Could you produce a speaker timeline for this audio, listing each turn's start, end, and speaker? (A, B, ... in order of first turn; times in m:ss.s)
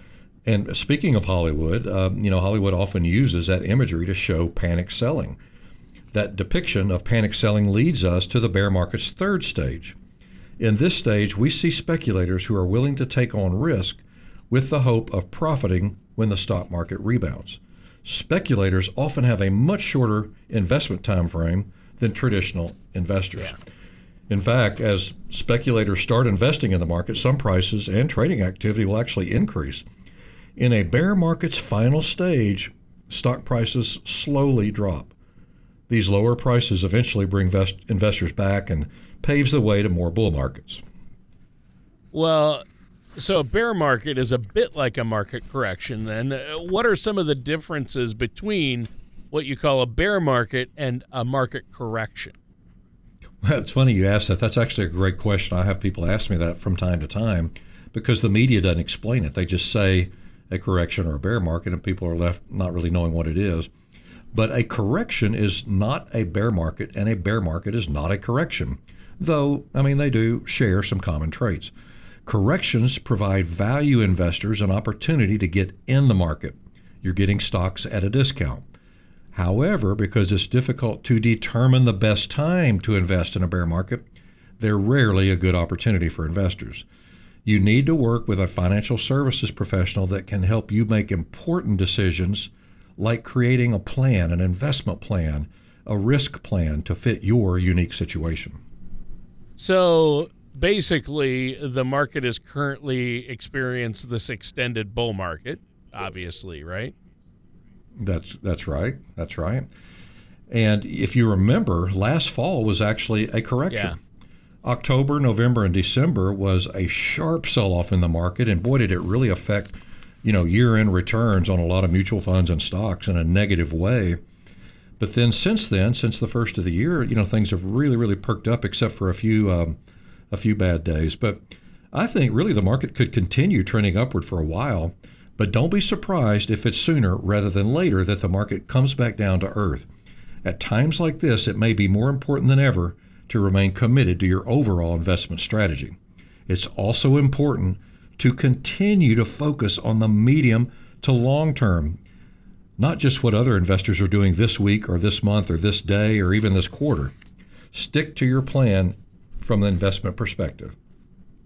0:00.5-0:05.4 A
0:06.1-0:10.0 A
0:10.6-0:23.6 A
0:24.3-0:29.9 A
0:30.6-0:35.1 A
0:35.9-0:40.8 A
0:42.1-0:42.6 B
0:43.2-0:52.4 B
0:53.4-1:03.7 A
1:04.3-1:11.7 A
1:12.3-1:18.6 A
1:19.3-1:24.1 A
1:24.6-1:26.9 A
1:27.4-1:38.6 A
1:39.6-1:46.9 B
1:48.0-1:49.7 A
1:50.5-1:54.0 A
1:53.7-1:54.0 B
1:54.6-2:04.2 A
2:05.0-2:09.8 A
2:10.3-2:19.9 A
2:20.4-2:32.0 A
2:32.8-2:37.1 A
2:37.7-2:40.8 A